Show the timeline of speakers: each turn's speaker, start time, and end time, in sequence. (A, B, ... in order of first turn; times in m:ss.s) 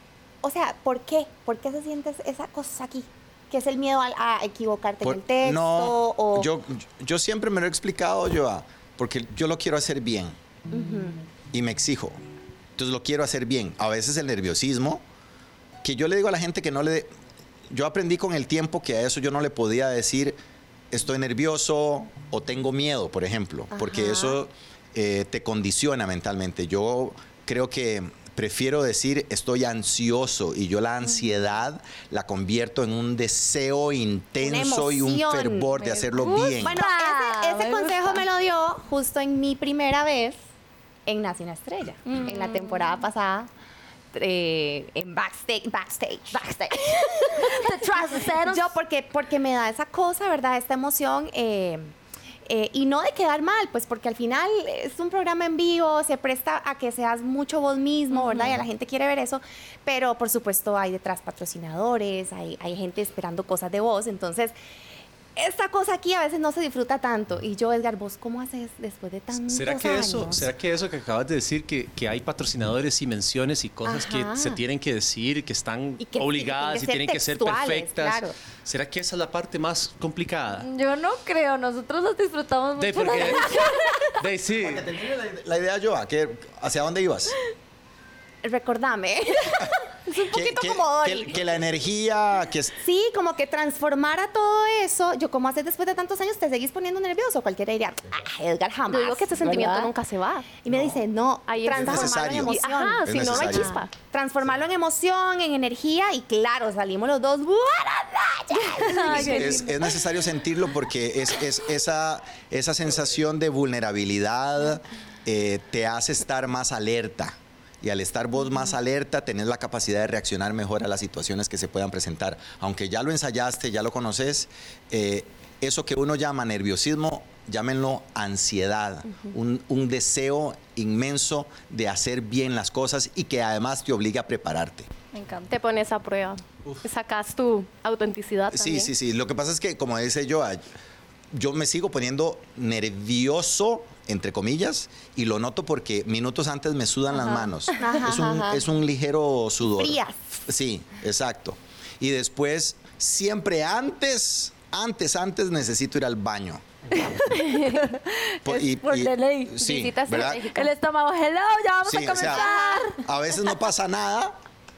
0:00.4-0:06.5 A
0:05.0-0:10.3 B
0:10.7-0:11.2 A
0:11.5-0:12.2 B
0:12.8-0:15.0 B
0:15.8-0:17.1 B
0:17.7-0:20.4 B
0:20.9-0:36.8 B
0:23.7-0:24.4 A
0:34.4-0:40.4 A
0:36.2-0:38.2 C
0:41.0-0:43.5 A
0:42.0-0:43.0 C
0:44.1-0:51.9 A
0:46.3-0:48.7 C
0:52.4-1:04.5 A
1:05.4-1:10.5 A
1:09.3-1:20.7 D
1:13.8-1:14.6 A
1:16.0-1:18.3 A
1:20.6-1:24.1 C
1:22.8-1:24.8 D
1:24.6-1:27.3 B
1:28.4-1:31.4 A
1:30.3-1:32.7 B
1:32.8-1:39.9 A
1:38.9-1:40.5 E
1:40.6-1:49.7 A
1:40.7-1:41.0 B
1:41.5-1:43.9 E
1:41.6-1:43.8 B
1:48.5-1:49.8 C
1:49.0-2:14.9 B
2:15.1-2:15.6 C
2:15.5-2:18.9 E
2:18.5-2:20.6 B
2:21.3-2:36.6 B
2:27.8-2:28.6 A
2:29.8-2:30.2 A
2:37.0-2:39.6 C
2:37.6-2:37.8 E
2:38.4-2:40.5 B
2:39.6-2:40.7 E
2:40.3-2:43.0 C
2:41.8-2:44.3 B
2:42.2-2:42.9 A